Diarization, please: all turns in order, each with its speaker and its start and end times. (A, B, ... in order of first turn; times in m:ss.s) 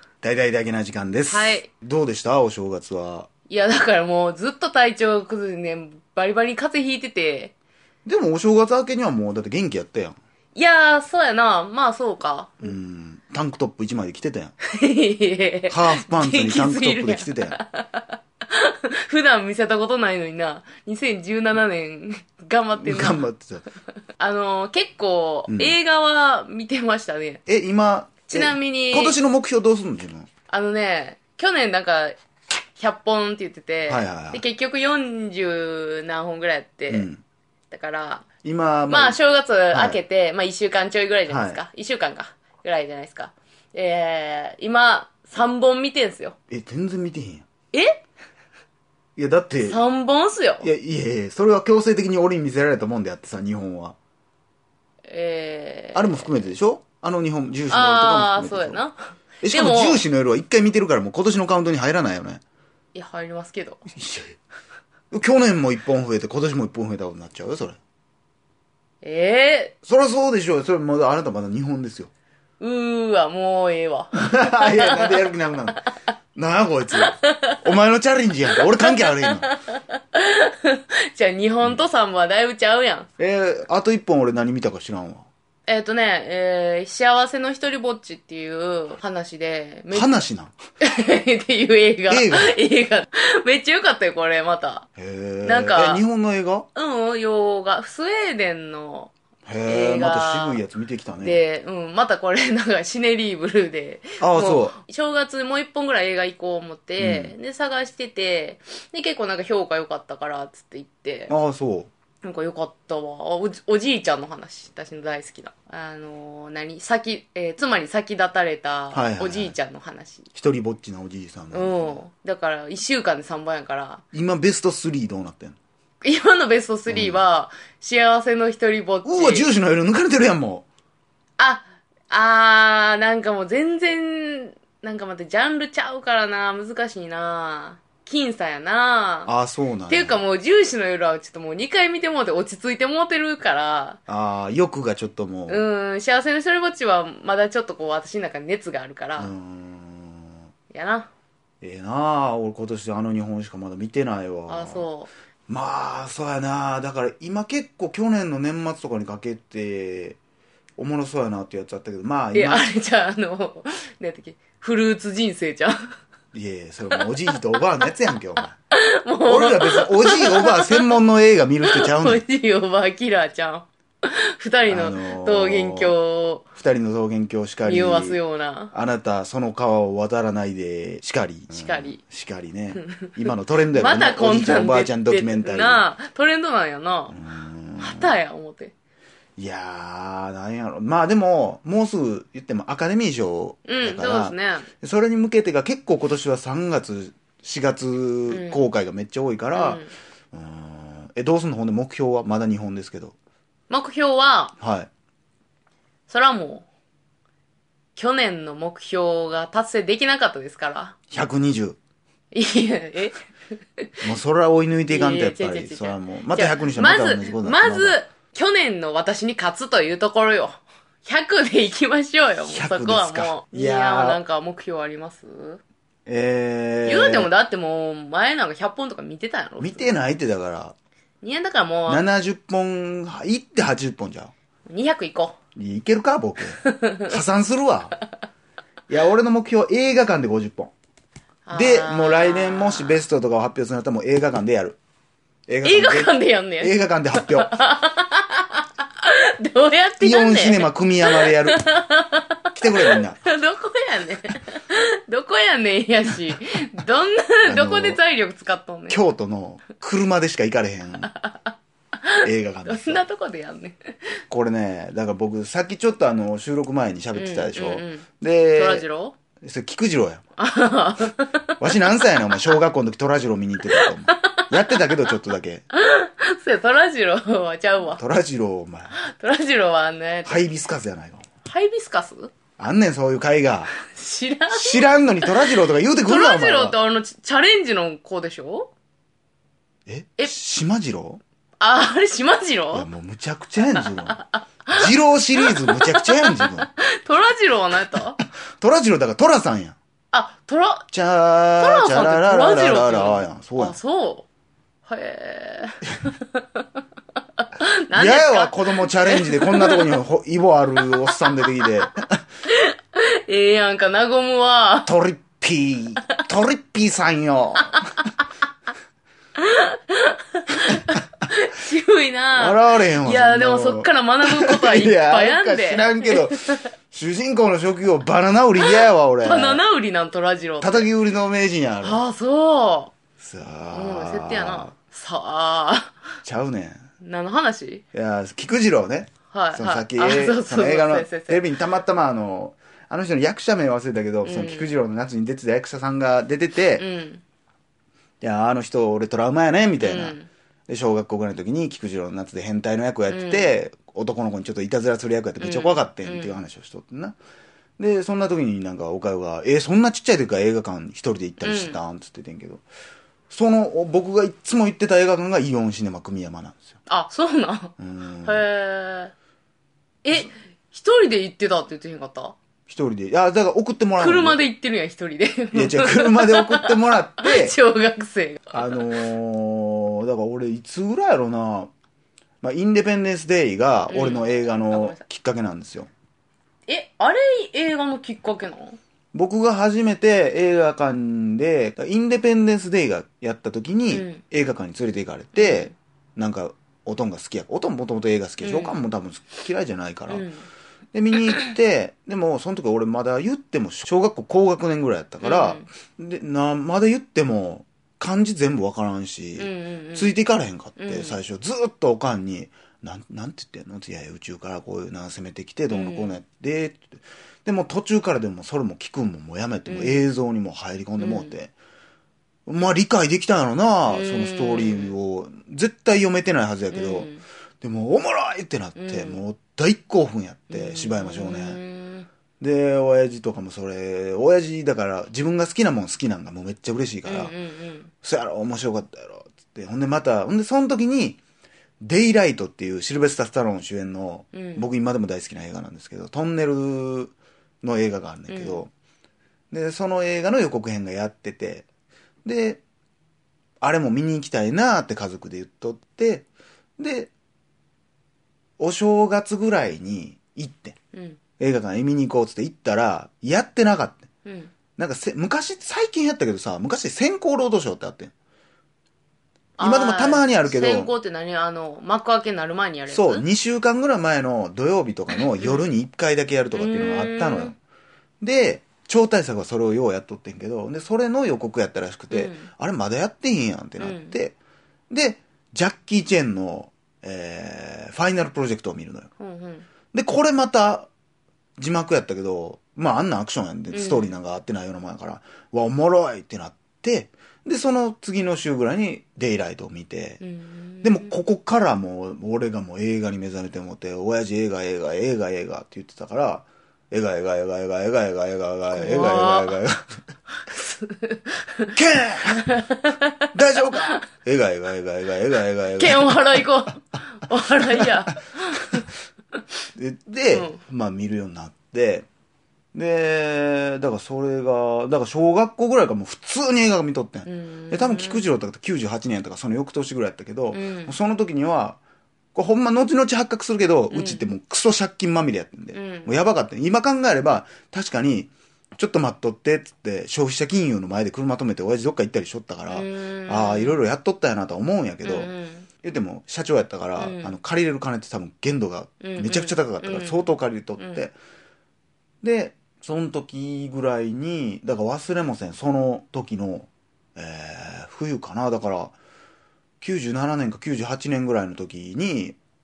0:00.2-0:03.3 A
0:01.3-0:01.7 B
0:03.5-0:07.5 B
0:08.0-0:10.2 A
0:10.5-0:12.7 B
0:12.6-0:14.5 A
0:14.7-0:23.3 B
0:15.7-0:17.6 A
0:22.8-0:23.6 A
0:24.2-0:27.4 B
0:25.5-0:25.8 A
0:27.5-0:30.3 A
0:28.3-0:29.2 B
0:30.5-0:32.2 B
0:32.8-0:37.1 B
0:33.9-0:34.4 A
0:36.9-0:37.2 A
0:37.7-0:38.2 B
0:38.4-0:39.2 A
0:38.9-0:46.4 B
0:39.7-0:40.0 A
0:41.3-0:41.6 A
0:46.5-0:47.5 A
0:47.7-0:48.0 B
0:49.2-0:49.8 A
0:49.6-0:50.7 B
0:50.6-0:54.0 A
0:55.1-0:56.5 B
0:55.9-0:58.8 A
0:57.7-1:00.0 B
0:59.4-1:02.4 A
1:02.9-1:03.8 B
1:03.9-1:04.3 A
1:05.1-1:07.8 A
1:09.0-1:09.7 B
1:09.8-1:12.1 A
1:12.6-1:15.3 B
1:14.1-1:15.8 A
1:16.3-1:19.5 A
1:17.0-1:17.6 B
1:18.5-1:23.1 B
1:23.2-1:25.3 A
1:25.6-1:30.2 B
1:29.9-1:30.6 A
1:30.8-1:34.9 B
1:32.1-1:32.6 A
1:35.0-1:36.7 A
1:35.4-1:36.0 B
1:36.7-1:39.1 B
1:39.4-1:41.4 A
1:39.6-1:40.6 B
1:41.2-1:51.3 B
1:44.2-1:44.8 A
1:47.0-1:47.3 A
1:51.3-1:51.9 A
1:52.2-2:00.2 B
1:58.9-1:59.6 A
2:00.3-2:02.0 A
2:01.5-2:04.0 B
2:04.1-2:05.6 A
2:06.0-2:09.5 B
2:06.9-2:07.2 A
2:09.0-2:10.6 A
2:11.4-2:19.3 B
2:19.2-2:20.2 A
2:19.9-2:24.0 B
2:24.1-2:25.6 A
2:25.5-2:29.3 B
2:29.2-2:30.4 A
2:30.7-2:31.1 B
2:31.6-2:34.9 A
2:34.5-2:35.1 B
2:35.5-2:40.2 A
2:40.8-2:42.7 A
2:42.3-2:45.8 B
2:46.3-2:48.6 A
2:48.7-2:50.8 B
2:49.2-2:52.2 A
2:51.6-2:56.5 B
2:54.7-2:55.9 A
2:56.5-3:05.8 A
2:57.6-2:58.7 B
3:01.5-3:02.0 B
3:02.7-3:07.2 B
3:07.1-3:08.1 A
3:07.8-3:08.7 B
3:09.4-3:23.1 A
3:13.6-3:14.7 B
3:18.3-3:18.6 B
3:19.5-3:19.9 B
3:23.7-3:24.5 B
3:24.6-3:24.9 A
3:26.1-3:26.6 B
3:28.0-3:31.0 B
3:31.1-3:31.8 A
3:32.3-3:33.2 B
3:34.0-3:38.0 A
3:34.9-3:45.6 B
3:42.5-3:44.2 A
3:46.1-3:47.3 A
3:46.8-3:49.9 B
3:49.6-3:50.7 A
3:51.2-3:52.0 B
3:51.9-3:54.3 A
3:54.7-3:55.4 B
3:55.5-3:58.0 A
3:56.6-3:57.1 B
3:58.9-4:00.7 A
4:01.4-4:03.0 B
4:01.5-4:04.8 A
4:05.5-4:07.5 A
4:05.6-4:19.0 B
4:10.0-4:11.6 A
4:12.5-4:13.2 A
4:17.4-4:18.0 A
4:18.9-4:21.1 A
4:21.1-4:21.5 B
4:22.0-4:24.2 B
4:22.2-4:23.0 A
4:24.3-4:28.8 A
4:27.1-4:29.2 B
4:29.4-4:30.2 A
4:30.4-4:32.4 B
4:31.6-4:35.6 A
4:33.7-4:35.1 B
4:35.7-4:38.0 B
4:37.9-4:39.0 A
4:38.9-4:40.4 B
4:40.2-4:41.2 A
4:41.4-4:42.3 B
4:42.6-4:43.7 A
4:43.8-4:48.7 B
4:44.5-4:46.8 A
4:49.9-4:51.2 A
4:51.6-4:52.9 B
4:52.7-4:56.7 A
4:53.7-4:54.8 B
4:55.4-4:58.2 B
4:58.6-4:59.8 A
5:00.1-5:00.8 B
5:00.9-5:03.8 A
5:01.6-5:04.2 B
5:04.9-5:06.8 B
5:07.4-5:10.0 B
5:07.9-5:12.1 A
5:10.8-5:11.8 B
5:12.4-5:14.9 B
5:14.8-5:17.9 A
5:19.4-5:26.7 B
5:22.3-5:29.6 A
5:29.2-5:30.9 B
5:30.6-5:32.0 A
5:31.8-5:32.9 B
5:33.2-5:34.7 A
5:33.7-5:36.0 B
5:36.2-5:36.8 A
5:37.0-5:37.8 B
5:37.9-5:46.8 A
5:39.3-5:41.5 B
5:44.2-5:44.7 B
5:46.8-5:47.2 B
5:48.2-5:50.2 A
5:49.8-5:50.3 B
5:50.7-5:57.2 A
5:53.1-5:53.6 B
5:55.4-5:56.4 B
5:57.8-6:02.6 A
6:01.4-6:01.8 B
6:03.3-6:06.8 A
6:06.9-6:09.1 B
6:07.8-6:08.4 A
6:10.0-6:12.4 B
6:12.7-6:14.4 A
6:14.0-6:18.8 B
6:15.5-6:17.6 A
6:18.5-6:21.7 A
6:22.4-6:25.9 A
6:23.9-6:25.0 B
6:26.7-6:28.8 B
6:29.1-6:40.3 A
6:33.9-6:34.2 B
6:35.3-6:35.7 B
6:38.4-6:38.8 B
6:40.1-6:40.5 B
6:40.9-7:01.5 A
6:45.2-6:45.6 B
6:49.4-6:50.2 B
6:50.8-6:51.2 B
6:55.7-6:56.2 B
6:59.7-7:00.0 B
7:01.0-7:01.3 B
7:02.5-7:07.1 A
7:03.9-7:04.9 B
7:06.7-7:07.2 B
7:07.6-7:11.6 A
7:08.8-7:09.2 B
7:10.5-7:12.1 B
7:12.4-7:17.3 A
7:17.0-7:17.9 B
7:18.0-7:21.2 A
7:21.8-7:28.7 A
7:24.3-7:24.6 B
7:28.3-7:28.6 B
7:29.5-7:31.6 A
7:32.2-7:32.6 A
7:33.6-7:36.3 A
7:36.8-7:37.1 A
7:38.6-7:40.8 A
7:40.9-7:41.2 B
7:41.4-7:44.0 A
7:44.2-7:44.5 B
7:44.8-7:48.1 A
7:49.6-7:53.2 B
7:49.6-7:50.9 A
7:52.9-7:57.6 A
7:55.3-7:55.6 B
7:56.5-7:57.5 B
7:58.2-8:04.4 A
8:02.1-8:02.5 B
8:03.8-8:04.1 B
8:04.9-8:09.1 A
8:09.2-8:09.7 B
8:09.9-8:10.9 A
8:11.6-8:20.2 A
8:13.7-8:14.2 B
8:20.2-8:21.1 B
8:20.8-8:29.9 A
8:28.7-8:29.6 B
8:30.4-8:31.7 B
8:31.7-8:32.5 A
8:32.3-8:34.0 B
8:33.3-8:36.4 A
8:35.7-8:38.8 B
8:37.7-8:38.1 A
8:39.7-8:42.0 A
8:40.3-8:40.6 B
8:42.7-8:51.8 A
8:47.2-8:48.3 B
8:50.5-8:51.0 B
8:52.3-9:05.3 A
8:53.9-8:54.3 B
8:55.7-8:56.2 B
9:02.7-9:03.8 B
9:05.0-9:05.7 B
9:05.8-9:11.1 A
9:07.0-9:07.3 B
9:09.0-9:11.0 B
9:12.2-9:19.0 A
9:19.8-9:22.4 A